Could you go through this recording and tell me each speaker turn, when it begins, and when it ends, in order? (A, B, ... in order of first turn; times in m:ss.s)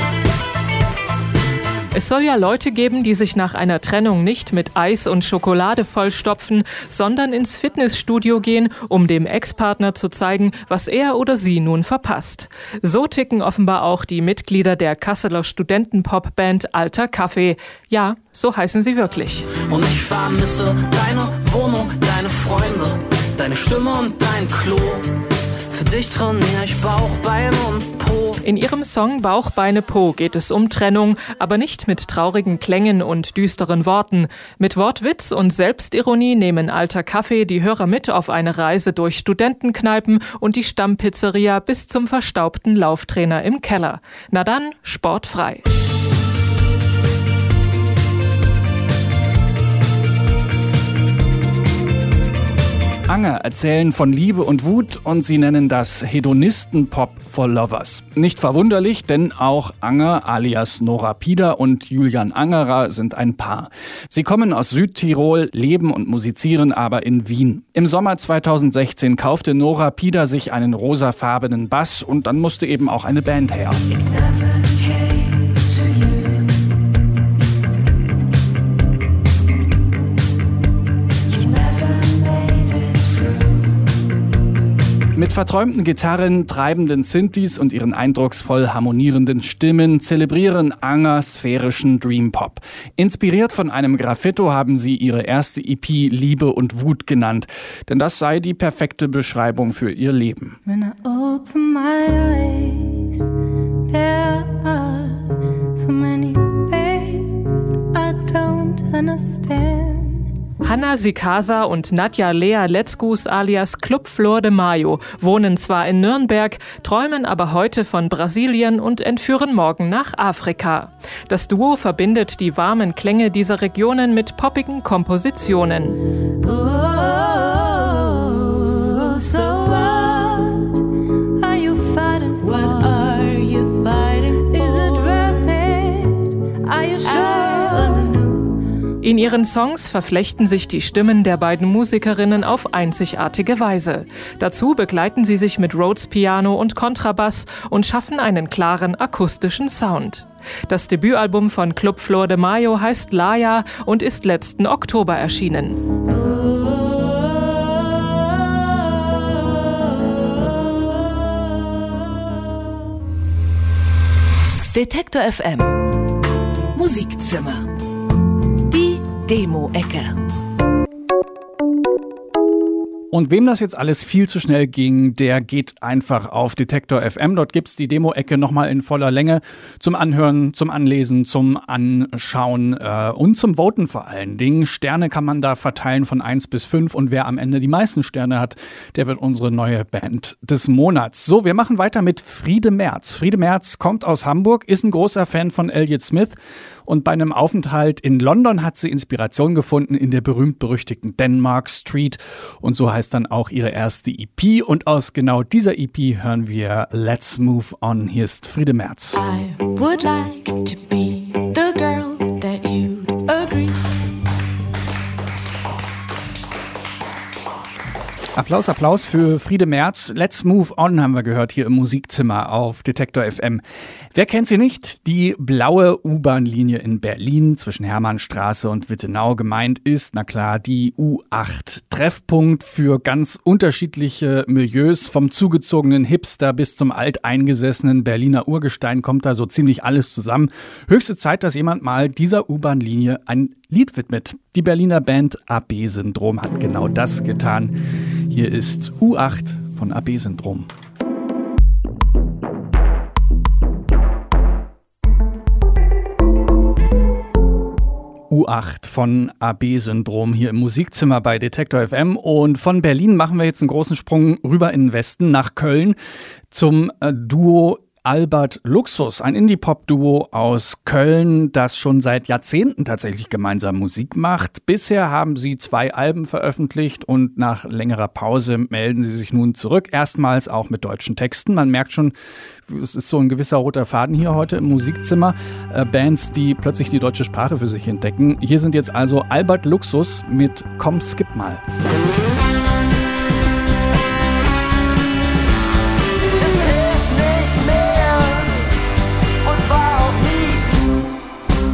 0:01.9-0:19.5 A
0:19.6-0:25.1 B
0:25.7-0:28.4 B
0:28.4-0:45.6 A
0:53.1-1:13.8 C
1:25.1-1:40.6 C
1:40.6-1:43.2 D
1:43.9-1:50.2 D
1:50.6-2:06.0 A
2:06.4-2:10.8 D
2:11.4-2:18.6 D
2:19.0-2:35.8 A
2:44.7-2:45.9 E
2:46.7-2:47.7 E
2:48.7-2:50.2 E
2:53.1-3:29.2 C
3:29.1-3:33.8 D
3:38.4-3:43.6 C
3:44.1-4:07.8 C
4:08.3-4:10.7 C
4:18.3-4:26.0 C
4:26.5-4:42.1 C
4:42.7-4:51.6 C
4:56.6-4:58.4 B
4:59.4-5:00.6 B